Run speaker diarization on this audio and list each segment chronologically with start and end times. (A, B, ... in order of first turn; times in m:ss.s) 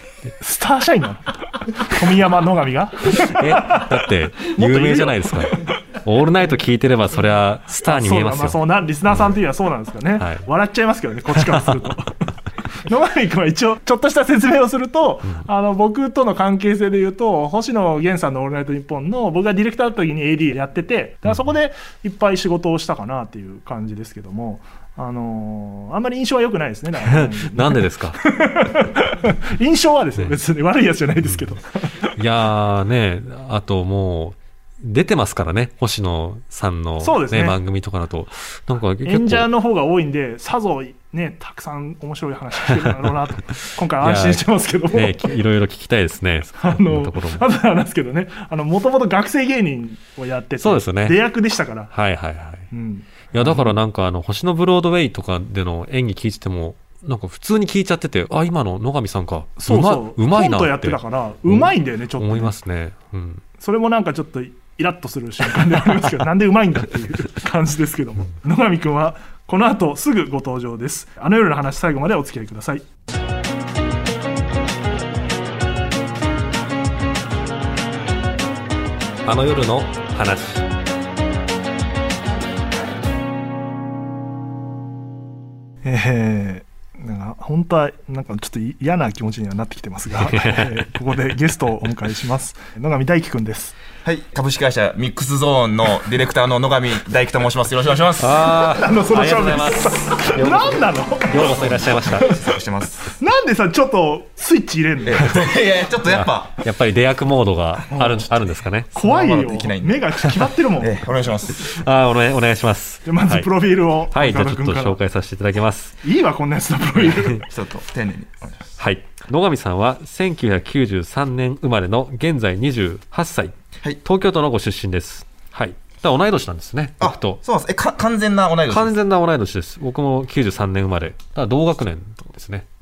0:00.4-0:05.6 A
0:03.1-0:09.4 B
0:07.8-0:12.2 A
0:11.4-0:11.8 B
0:12.8-0:32.1 A
0:27.1-0:28.2 B
0:32.2-0:39.5 B
0:37.0-0:37.6 A
0:39.0-0:45.4 A
0:42.6-0:47.4 B
0:46.6-0:51.9 A
0:50.6-0:51.2 B
0:51.9-0:52.7 B
0:52.7-0:53.7 A
0:53.4-1:03.4 B
0:59.6-1:02.5 A
1:03.6-1:12.8 A
1:19.2-1:20.7 B
1:25.8-1:33.8 A
1:30.3-1:30.8 B
1:34.0-1:38.7 C
1:38.2-1:42.4 B
1:38.6-1:42.4 A
1:41.3-1:43.2 C
1:43.2-1:45.4 A
1:45.0-1:46.7 C
1:46.1-1:48.9 B
1:47.9-1:48.2 A
1:48.9-1:50.1 C
1:48.9-1:51.0 A
1:50.8-1:51.8 C
1:51.6-1:53.5 B
1:53.1-1:55.0 A
1:54.1-1:56.0 B
1:56.0-1:57.4 A
1:57.5-1:58.6 C
1:58.8-2:07.4 B
2:07.0-2:09.0 C
2:08.7-2:12.7 B